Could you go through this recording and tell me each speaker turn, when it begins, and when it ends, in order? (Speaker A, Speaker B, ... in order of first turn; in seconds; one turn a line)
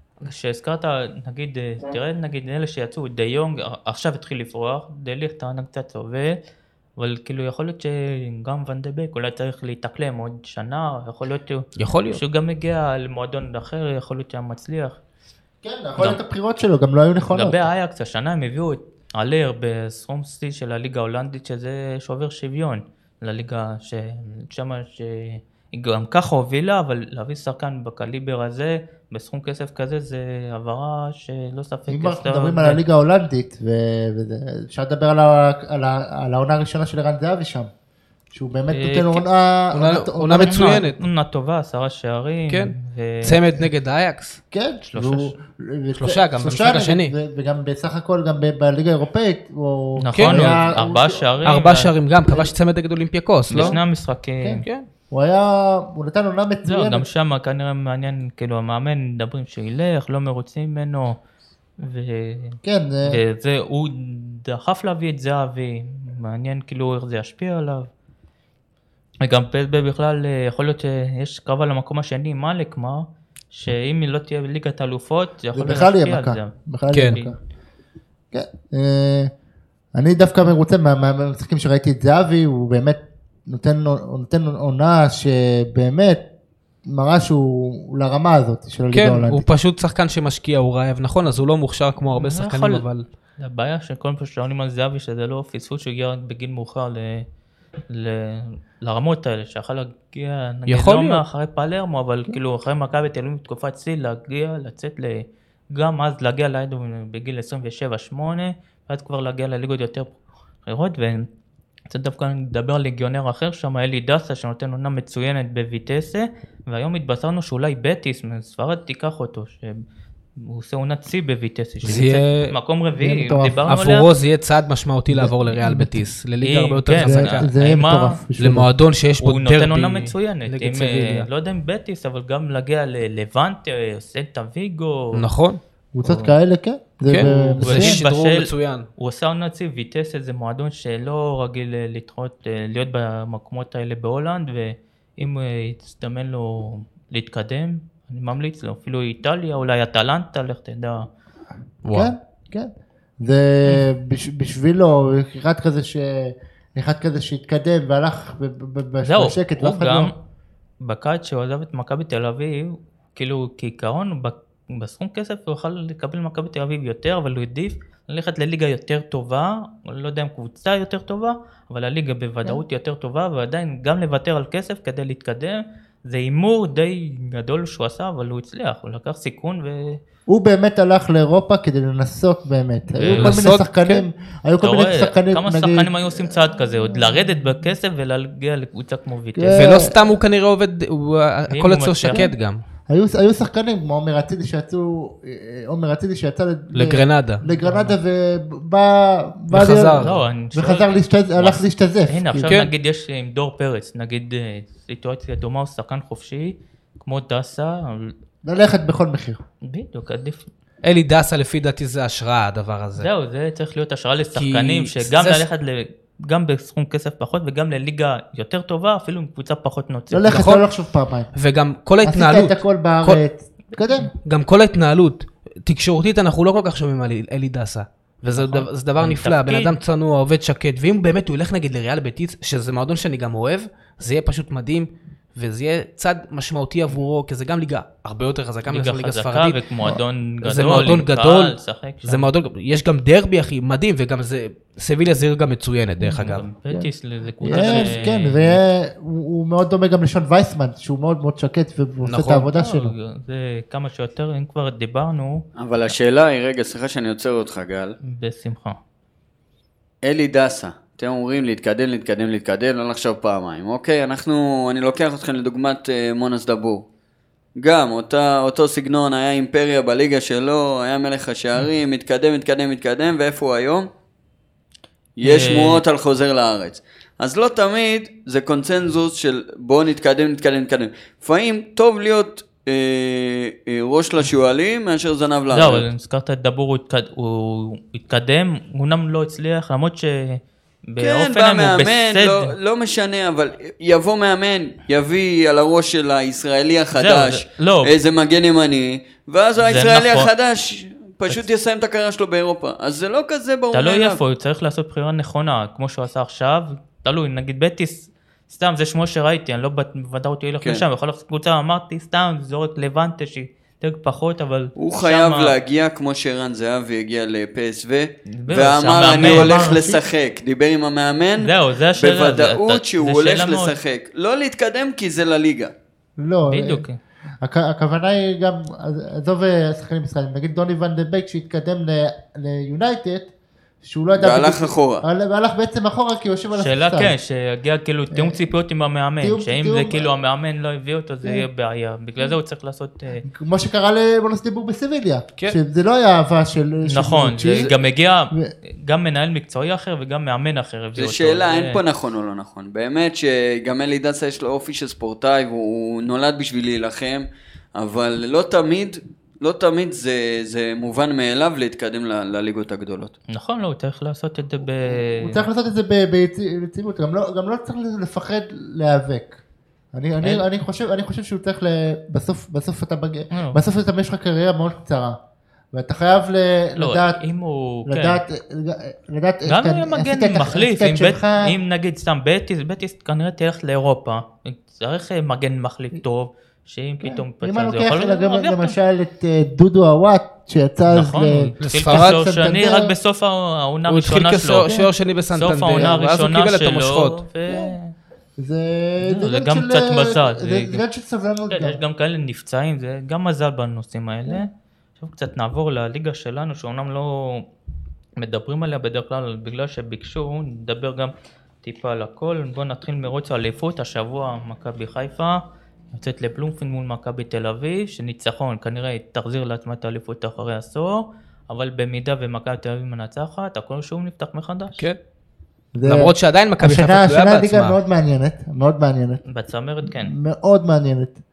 Speaker A: 0.2-6.4
Speaker A: 7.0-15.0
Speaker B: 11.8-12.2
Speaker C: 15.6-17.6
Speaker A: 17.3-32.8
Speaker C: 31.9-37.7
Speaker C: 38.3-40.8
Speaker A: 38.7-39.2
Speaker B: 39.7-41.0
Speaker A: 40.5-43.4
Speaker B: 42.5-44.4
Speaker C: 44.5-51.4
Speaker A: 44.9-45.4
Speaker B: 46.0-47.1
Speaker A: 50.0-51.9
Speaker B: 50.1-50.6
Speaker B: 51.5-53.8
Speaker A: 53.5-54.6
Speaker C: 53.5-53.8
Speaker C: 54.4-57.1
Speaker A: 56.7-61.2
Speaker A: 61.8-67.9
Speaker C: 62.6-63.2
Speaker A: 69.2-77.3
Speaker C: 75.5-77.4
Speaker B: 76.9-77.2
Speaker C: 78.3-79.3
Speaker C: 79.9-86.2
Speaker C: 86.8-89.5
Speaker B: 88.9-93.0
Speaker A: 92.2-97.3
Speaker A: 97.9-111.3
Speaker B: 100.7-101.2
Speaker A: 111.9-119.8
Speaker A: 120.4-124.1
Speaker B: 121.8-122.5
Speaker C: 123.0-123.7
Speaker B: 123.7-127.5
Speaker C: 125.1-126.0
Speaker A: 126.4-128.2
Speaker C: 127.0-128.7
Speaker B: 128.4-131.3
Speaker A: 129.2-135.3
Speaker B: 135.1-135.6
Speaker C: 135.9-138.0
Speaker A: 136.0-136.3
Speaker B: 137.1-138.9
Speaker A: 137.2-151.1
Speaker B: 151.8-152.1
Speaker C: 151.9-160.1
Speaker A: 159.0-160.1
Speaker A: 160.8-180.0
Speaker C: 180.3-187.3
Speaker A: 182.9-183.4
Speaker B: 183.1-184.0
Speaker A: 184.6-189.8
Speaker C: 189.3-190.2
Speaker B: 189.5-192.6
Speaker A: 191.5-192.3
Speaker C: 192.9-202.5
Speaker B: 196.7-197.4
Speaker A: 197.4-197.9
Speaker B: 199.5-200.1
Speaker A: 200.0-208.1
Speaker C: 208.4-209.4
Speaker A: 209.6-210.5
Speaker B: 210.8-213.1
Speaker A: 213.0-220.5
Speaker B: 214.4-215.5
Speaker C: 220.1-221.3
Speaker B: 220.3-220.7
Speaker B: 221.3-223.2
Speaker C: 222.0-224.1
Speaker B: 224.2-239.6
Speaker A: 228.4-229.8
Speaker A: 238.7-242.3
Speaker B: 240.4-246.5
Speaker A: 246.0-248.6
Speaker C: 247.4-252.9
Speaker B: 247.6-247.9
Speaker B: 252.0-252.5
Speaker A: 252.5-255.4
Speaker D: 255.6-257.9
Speaker A: 258.0-258.8
Speaker D: 260.0-266.9
Speaker D: 267.6-273.9
Speaker D: 275.2-285.9
Speaker A: 275.2-275.8
Speaker A: 285.5-292.5
Speaker D: 291.0-304.2
Speaker A: 296.9-297.9
Speaker A: 299.6-300.3
Speaker A: 303.7-315.6
Speaker D: 314.8-325.7
Speaker A: 318.3-319.8
Speaker C: 319.1-320.0
Speaker A: 321.4-323.8
Speaker C: 326.2-326.9
Speaker A: 326.5-327.0
Speaker C: 327.4-337.1
Speaker D: 334.1-335.1
Speaker A: 336.5-343.2
Speaker C: 338.1-338.4
Speaker C: 339.2-340.1
Speaker C: 343.2-347.7
Speaker A: 346.8-351.8
Speaker D: 351.0-363.1
Speaker A: 363.3-365.5
Speaker C: 365.2-369.4
Speaker C: 369.9-375.2
Speaker A: 373.3-373.6
Speaker C: 375.7-377.2
Speaker A: 376.8-378.2
Speaker C: 377.9-381.6
Speaker A: 379.5-388.8
Speaker C: 387.0-392.9
Speaker A: 390.9-394.7
Speaker B: 391.6-392.2
Speaker B: 393.9-397.2
Speaker A: 395.3-397.9
Speaker C: 395.7-396.0
Speaker C: 397.5-397.8
Speaker C: 398.4-401.8
Speaker A: 399.0-400.8
Speaker A: 401.5-407.5
Speaker A: 408.2-415.4
Speaker A: 415.9-424.8
Speaker C: 425.8-429.2
Speaker B: 425.8-427.8
Speaker A: 429.3-430.1
Speaker C: 429.9-431.2